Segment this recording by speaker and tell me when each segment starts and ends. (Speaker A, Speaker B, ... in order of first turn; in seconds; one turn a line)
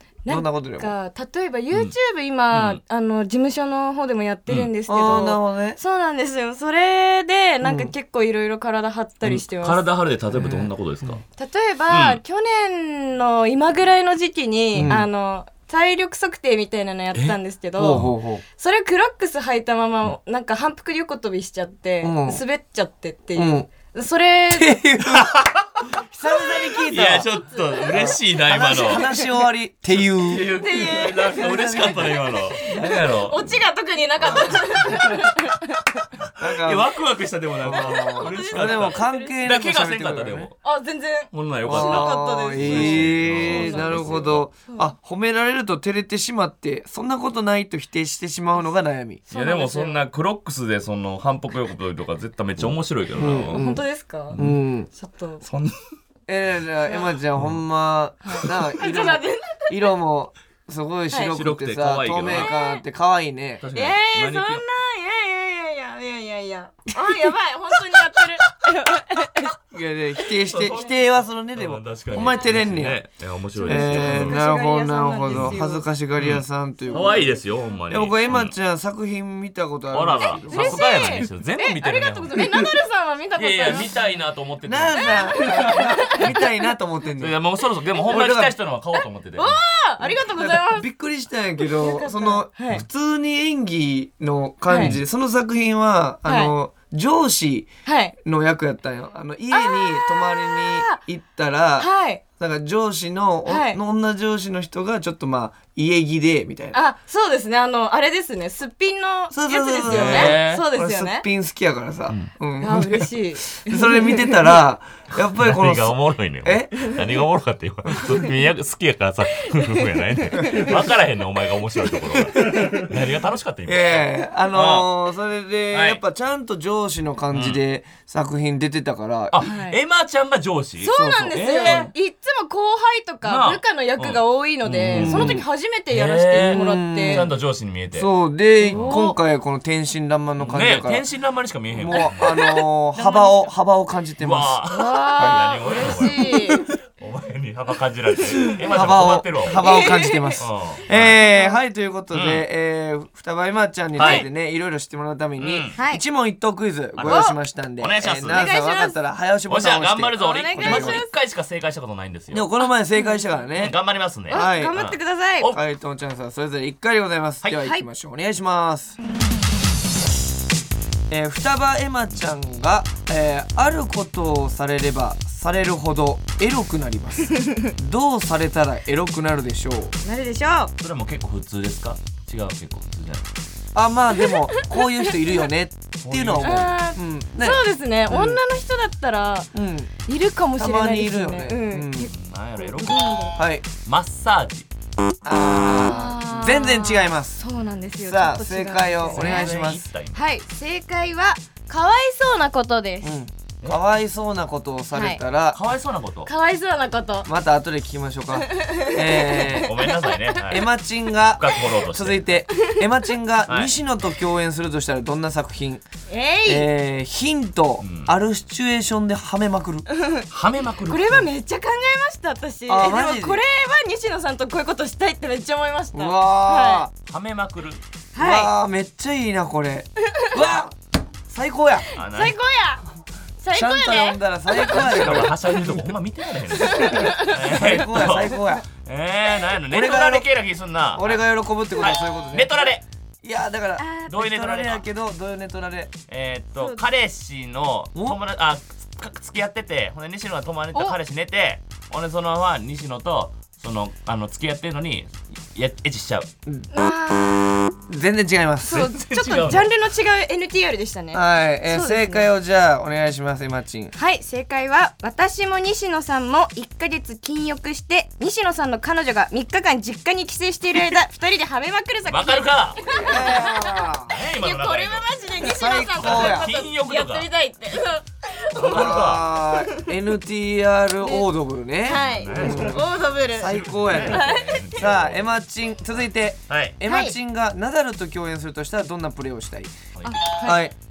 Speaker A: 0.3-9.8
Speaker B: 0.3-0.9
Speaker C: 2.5-2.8
Speaker B: 4.9-5.8
Speaker B: 7.6-7.9
Speaker C: 9.2-11.2
Speaker B: 10.3-11.2
Speaker A: 11.4-18.1
Speaker C: 11.9-12.2
Speaker B: 14.7-15.1
Speaker B: 17.8-18.4
Speaker A: 18.6-24.8
Speaker B: 22.0-22.4
Speaker B: 23.4-23.7
Speaker B: 24.5-27.3
Speaker C: 25.1-25.5
Speaker C: 26.9-29.1
Speaker B: 27.9-30.5
Speaker C: 29.9-33.6
Speaker A: 30.6-31.4
Speaker B: 31.2-32.4
Speaker A: 32.6-36.1
Speaker B: 34.2-34.6
Speaker C: 34.3-35.2
Speaker B: 36.4-36.9
Speaker C: 36.4-40.6
Speaker B: 37.6-40.5
Speaker A: 37.7-39.3
Speaker A: 40.6-44.9
Speaker C: 41.3-44.5
Speaker B: 41.6-49.2
Speaker A: 49.3-50.0
Speaker C: 49.3-53.6
Speaker B: 52.6-53.8
Speaker A: 53.5-54.4
Speaker C: 54.3-54.6
Speaker B: 54.4-54.9
Speaker A: 54.9-55.4
Speaker C: 55.4-55.8
Speaker B: 56.3-63.7
Speaker A: 56.9-57.1
Speaker A: 58.2-59.7
Speaker C: 61.3-62.5
Speaker A: 62.3-62.8
Speaker C: 63.6-64.6
Speaker A: 63.7-69.6
Speaker B: 69.7-73.0
Speaker C: 70.4-74.4
Speaker A: 73.6-75.9
Speaker B: 73.6-77.4
Speaker C: 75.3-75.6
Speaker C: 76.2-78.5
Speaker A: 76.9-77.4
Speaker B: 77.9-80.8
Speaker C: 79.9-82.7
Speaker A: 80.5-83.9
Speaker C: 83.4-86.3
Speaker B: 84.6-87.4
Speaker A: 85.0-86.3
Speaker C: 87.2-89.6
Speaker B: 88.0-88.6
Speaker A: 89.4-90.9
Speaker B: 90.0-97.7
Speaker A: 91.6-92.8
Speaker A: 94.7-94.9
Speaker A: 96.3-96.5
Speaker A: 97.9-98.2
Speaker B: 98.2-106.8
Speaker A: 99.5-101.0
Speaker A: 101.8-102.2
Speaker A: 103.5-103.8
Speaker A: 106.7-111.2
Speaker B: 109.3-116.9
Speaker C: 109.9-110.7
Speaker A: 112.6-114.5
Speaker C: 115.4-124.9
Speaker A: 119.4-120.8
Speaker B: 120.4-120.7
Speaker B: 122.4-122.9
Speaker B: 123.7-129.4
Speaker C: 125.7-126.0
Speaker C: 127.3-127.6
Speaker C: 129.3-131.9
Speaker A: 129.4-129.8
Speaker A: 130.8-137.3
Speaker B: 130.9-131.9
Speaker C: 133.2-138.1
Speaker B: 134.9-135.4
Speaker B: 136.4-137.3
Speaker B: 137.9-141.0
Speaker A: 138.6-139.2
Speaker C: 138.7-139.0
Speaker C: 140.4-142.4
Speaker B: 141.7-144.6
Speaker A: 141.9-143.3
Speaker C: 144.2-151.2
Speaker A: 144.7-146.7
Speaker B: 145.2-145.5
Speaker B: 148.6-161.0
Speaker A: 149.6-150.4
Speaker A: 151.3-151.6
Speaker C: 152.1-152.4
Speaker C: 154.0-154.3
Speaker A: 154.0-154.3
Speaker C: 155.4-155.8
Speaker A: 155.8-156.0
Speaker C: 157.0-158.5
Speaker A: 157.1-157.4
Speaker A: 158.3-159.0
Speaker C: 159.5-162.5
Speaker A: 160.2-161.1
Speaker B: 162.3-163.8
Speaker C: 163.6-165.6
Speaker B: 164.3-164.8
Speaker A: 164.3-165.5
Speaker B: 165.4-169.0
Speaker B: 171.1-179.9
Speaker A: 177.3-177.7
Speaker A: 180.0-180.7
Speaker C: 180.8-183.2
Speaker B: 183.8-188.4
Speaker A: 184.2-185.1
Speaker C: 186.0-186.7
Speaker A: 186.4-189.5
Speaker B: 189.5-189.9
Speaker A: 190.1-193.4
Speaker B: 190.6-192.1
Speaker C: 192.1-193.2
Speaker B: 193.4-193.7
Speaker C: 193.8-194.7
Speaker B: 195.2-197.4
Speaker A: 195.6-199.6
Speaker B: 198.0-199.8
Speaker C: 199.1-200.2
Speaker A: 200.1-203.1
Speaker B: 203.0-205.6
Speaker A: 204.9-205.2
Speaker C: 205.5-206.3
Speaker A: 206.3-207.3
Speaker B: 207.2-209.8
Speaker A: 208.5-210.3
Speaker C: 209.5-210.7
Speaker B: 210.4-215.8
Speaker C: 211.3-212.4
Speaker C: 213.5-213.7
Speaker A: 216.1-216.7
Speaker B: 216.4-219.9
Speaker C: 217.8-218.1
Speaker A: 219.9-220.3
Speaker C: 220.3-221.3
Speaker A: 220.9-226.8
Speaker B: 222.7-223.4
Speaker B: 225.9-226.9
Speaker C: 227.1-227.8
Speaker A: 228.1-228.5
Speaker B: 228.2-230.8
Speaker A: 230.1-230.4
Speaker B: 231.3-231.9
Speaker C: 231.9-232.4
Speaker A: 232.0-232.8
Speaker A: 233.4-234.8
Speaker B: 233.5-235.9
Speaker C: 234.7-241.2
Speaker A: 236.6-237.4
Speaker B: 236.9-238.7
Speaker B: 239.7-240.3
Speaker B: 240.9-242.6
Speaker C: 241.8-242.8
Speaker B: 243.2-246.0
Speaker A: 243.8-244.1
Speaker C: 244.1-244.8
Speaker C: 246.1-256.3
Speaker A: 246.6-246.8
Speaker A: 256.7-257.8
Speaker B: 257.9-258.9
Speaker A: 258.6-262.3
Speaker C: 258.7-259.7
Speaker B: 261.1-263.9
Speaker A: 263.9-279.9
Speaker C: 272.1-273.0
Speaker B: 272.9-274.1
Speaker C: 274.1-275.1
Speaker B: 275.4-276.5
Speaker C: 276.0-277.3
Speaker C: 278.6-279.4
Speaker B: 278.6-289.8
Speaker A: 281.0-281.3
Speaker A: 281.9-284.8
Speaker C: 282.0-285.3
Speaker C: 286.5-286.8
Speaker A: 286.9-287.1
Speaker C: 290.0-290.2
Speaker A: 290.1-290.6
Speaker B: 290.4-290.7